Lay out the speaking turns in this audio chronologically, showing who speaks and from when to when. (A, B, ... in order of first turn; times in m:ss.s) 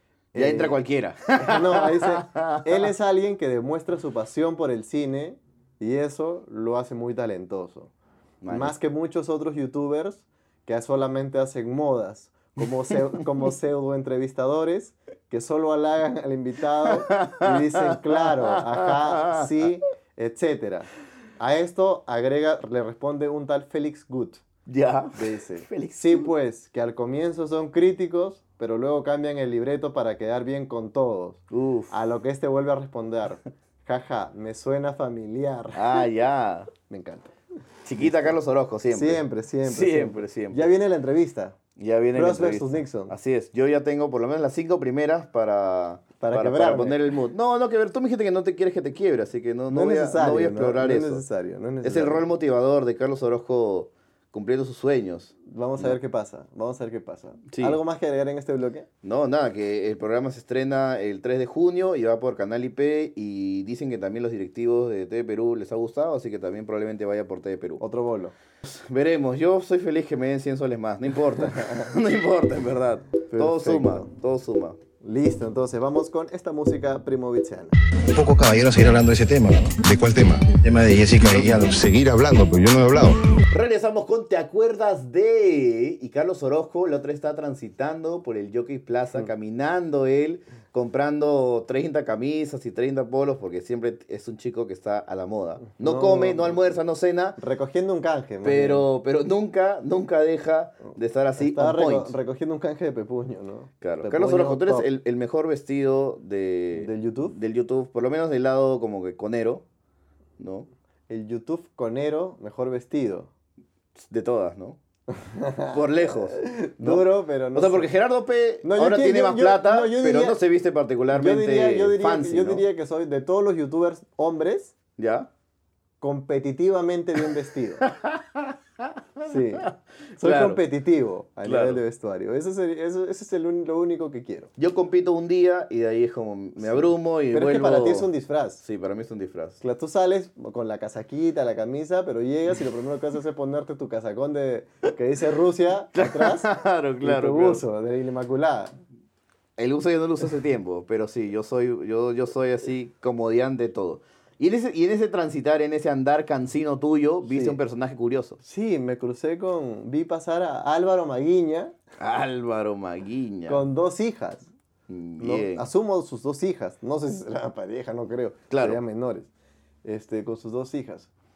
0:00.3-0:00.8 A
0:00.3-0:02.7 B
0:01.4-0:07.9 A
0:08.4-0:08.8 B
0:08.5-0:20.9 A
0:16.9-0:19.5 B
0:21.4-0:24.4 A
0:24.7-0:26.3 B
0:25.2-0:36.0 A
0:31.5-0:31.9 B
0:35.7-0:36.7 B
0:36.8-0:37.3 A
0:37.8-0:40.7 B
0:38.0-0:38.4 A
0:38.9-0:41.6 A
0:41.8-0:51.2 B
0:42.1-0:43.1 A
0:46.2-0:47.0 A
0:49.7-0:52.2 A
0:51.8-0:55.9 B
0:55.4-0:58.9 A
0:57.5-0:57.8 B
0:59.0-1:07.8 B
1:07.8-1:08.3 A
1:08.6-1:14.8 B
1:13.3-1:14.0 A
1:15.0-1:17.8 A
1:18.1-1:23.2 C
1:23.5-1:37.4 B
1:35.8-1:36.7 A
1:37.4-1:38.8 A
1:38.4-1:42.2 B
1:41.4-1:44.9 A
1:43.8-1:49.6 B
1:46.7-1:47.4 A
1:50.4-1:50.7 B
1:51.1-1:53.3 A
1:54.0-1:54.8 B
1:55.1-1:57.9 A
1:55.7-2:02.6 B
1:58.6-2:00.4 A
2:01.1-2:04.7 A
2:05.0-2:05.3 B
2:06.0-2:07.8 A
2:07.8-2:10.6 B
2:09.3-2:09.7 A
2:10.2-2:14.5 A
2:11.4-2:11.8 B
2:14.6-2:18.1 B
2:16.6-2:18.6 A
2:18.6-2:19.6 B
2:19.6-2:26.5 A
2:25.9-2:27.6 B
2:27.0-2:28.8 A
2:29.6-2:38.4 B
2:37.3-2:37.6 A
2:38.4-2:41.7 A
2:42.0-2:43.6 B
2:43.5-2:44.5 A
2:44.9-2:45.7 B
2:45.2-2:49.3 A
2:48.5-2:48.8 B
2:49.8-2:51.1 A